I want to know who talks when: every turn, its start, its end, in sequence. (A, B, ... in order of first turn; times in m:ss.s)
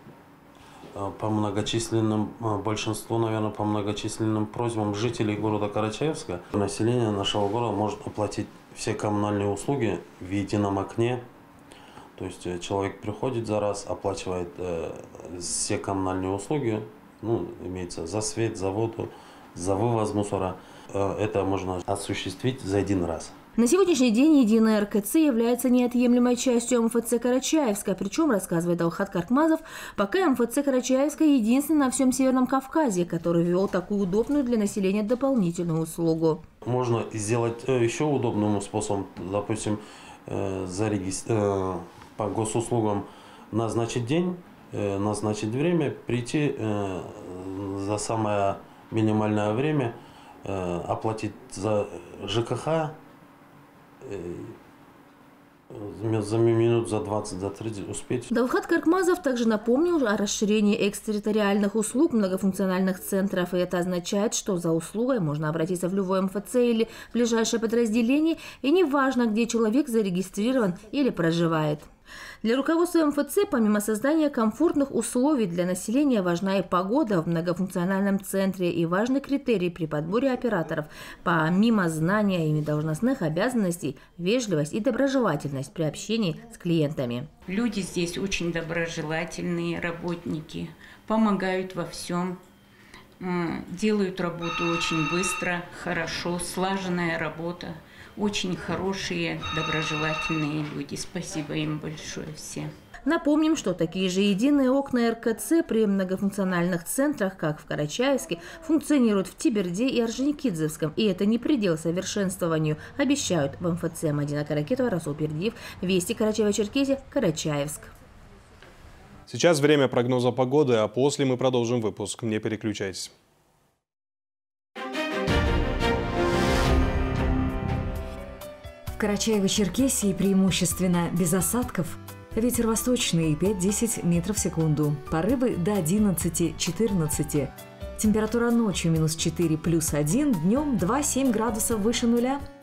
0:00.9-0:11.3 A
0:12.2-0:23.3 A
0:23.6-0:36.4 B
0:36.6-0:53.0 A
0:54.0-0:54.6 A
0:55.7-0:58.3 A
0:58.3-1:11.9 B
1:12.4-1:27.3 B
1:27.5-1:32.4 C
1:33.2-1:42.7 C
1:43.0-1:57.9 B
1:59.3-2:03.1 D
2:08.9-2:22.4 E